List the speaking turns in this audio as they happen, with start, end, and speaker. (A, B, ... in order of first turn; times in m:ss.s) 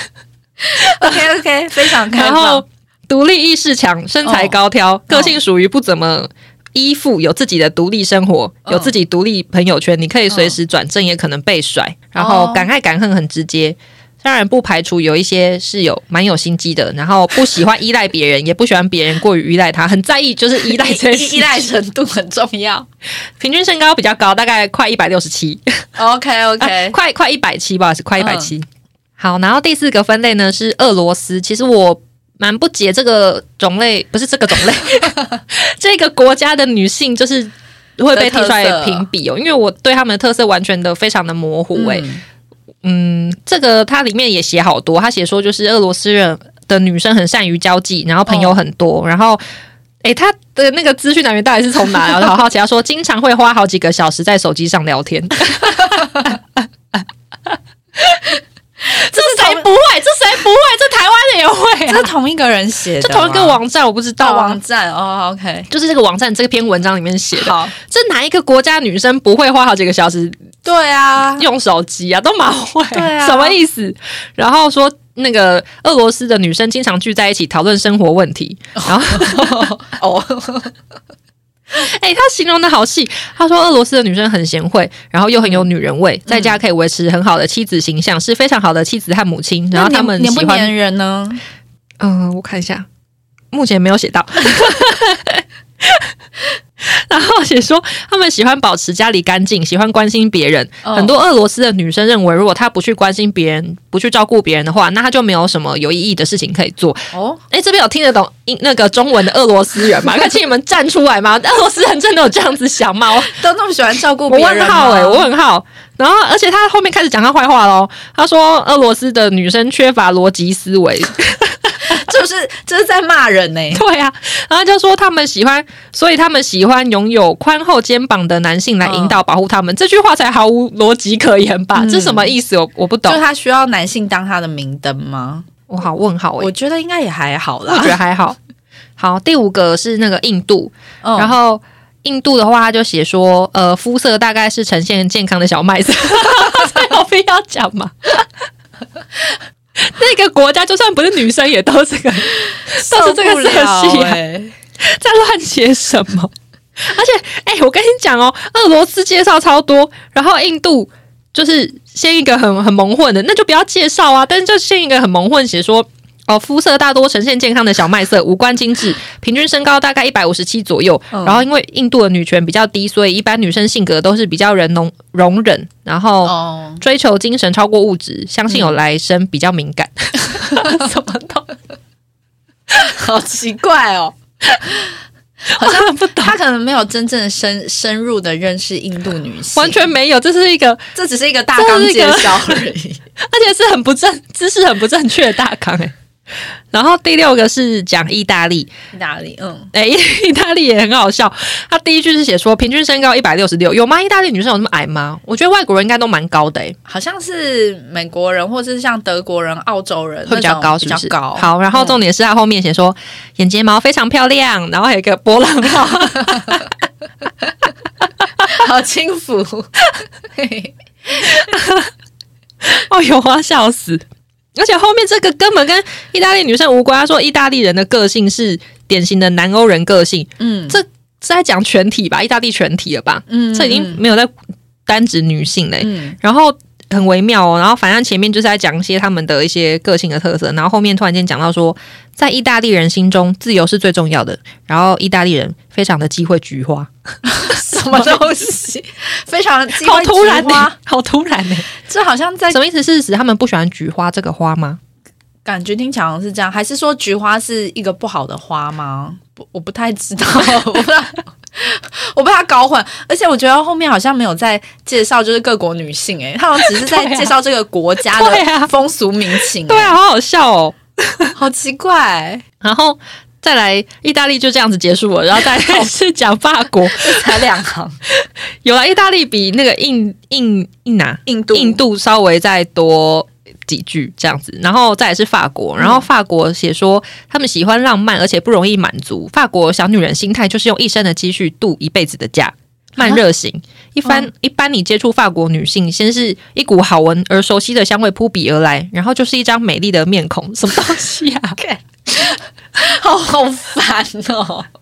0:00.7-0:02.6 A
0:00.9-0:01.2 B
0:02.0-0:21.5 B
0:04.2-0:04.6 A
0:05.1-0:05.4 A
0:08.6-0:08.9 A
0:10.3-0:10.6 A
0:12.2-0:12.7 A
0:20.6-0:22.9 A
0:23.4-0:25.8 B
0:26.0-0:27.0 A
0:26.6-0:28.6 B
0:28.2-0:28.5 A
0:29.2-0:42.0 B
0:38.1-0:39.1 A
0:41.7-0:42.2 A
0:42.8-0:49.4 B
0:48.3-0:48.6 A
0:50.0-0:57.0 B
0:55.7-0:56.3 A
0:58.0-0:58.2 B
0:58.9-1:02.1 B
0:58.9-0:59.6 A
1:01.9-1:03.6 A
1:03.0-1:04.6 B
1:04.2-1:05.7 A
1:05.7-1:10.4 B
1:07.3-1:07.7 A
1:10.6-1:11.4 A
1:11.4-1:19.8 B
1:12.9-1:13.6 A
1:18.8-1:20.7 A
1:21.7-1:30.7 B
1:26.3-1:26.6 A
1:29.7-1:31.4 A
1:32.0-1:32.9 B
1:33.5-1:36.1 B
1:36.8-1:53.3 B
1:40.8-1:41.2 A
1:47.1-1:47.4 A
1:53.3-1:55.3 A
1:54.3-2:02.1 B
2:01.8-2:03.8 A
2:03.7-2:13.2 B
2:08.8-2:09.2 A
2:11.7-2:12.3 A
2:13.0-2:15.4 A
2:15.7-2:16.5 B
2:16.4-2:18.0 A
2:17.7-2:18.4 B
2:19.0-2:28.2 B
2:21.0-2:21.3 A
2:29.8-2:34.2 B
2:32.6-2:34.5 A
2:34.8-3:01.1 B
2:51.1-2:51.4 A
2:56.2-2:56.8 A
2:58.5-2:58.7 A
3:00.3-3:01.5 A
3:02.8-3:04.8 A
3:05.5-3:09.8 A
3:05.5-3:06.3 B
3:09.5-3:10.8 B
3:10.9-3:13.0 A
3:11.5-3:12.6 B
3:13.2-3:15.9 B
3:16.7-3:18.7 B
3:18.9-3:19.7 A
3:19.7-3:26.8 B
3:26.9-3:32.0 A
3:30.3-3:36.7 B
3:38.4-3:39.8 A
3:40.3-3:41.5 A
3:41.2-3:41.9 B
3:42.6-3:44.0 B
3:44.5-3:54.3 B
3:50.4-3:50.8 A
3:53.3-3:54.0 A
3:54.9-4:06.9 B
3:55.8-3:56.2 A
4:07.2-4:10.8 A
4:07.5-4:08.2 B
4:09.8-4:11.7 B
4:11.8-4:12.6 A
4:12.5-4:14.8 B
4:15.4-4:30.0 A
4:26.6-4:27.3 B
4:28.1-4:28.7 B
4:29.4-4:31.3 B
4:31.4-4:32.4 A
4:32.6-4:37.4 B
4:35.6-4:35.8 A
4:36.9-4:38.0 A
4:38.1-5:01.6 B
4:41.2-4:41.8 A
4:45.8-4:46.0 A
5:01.6-5:04.7 A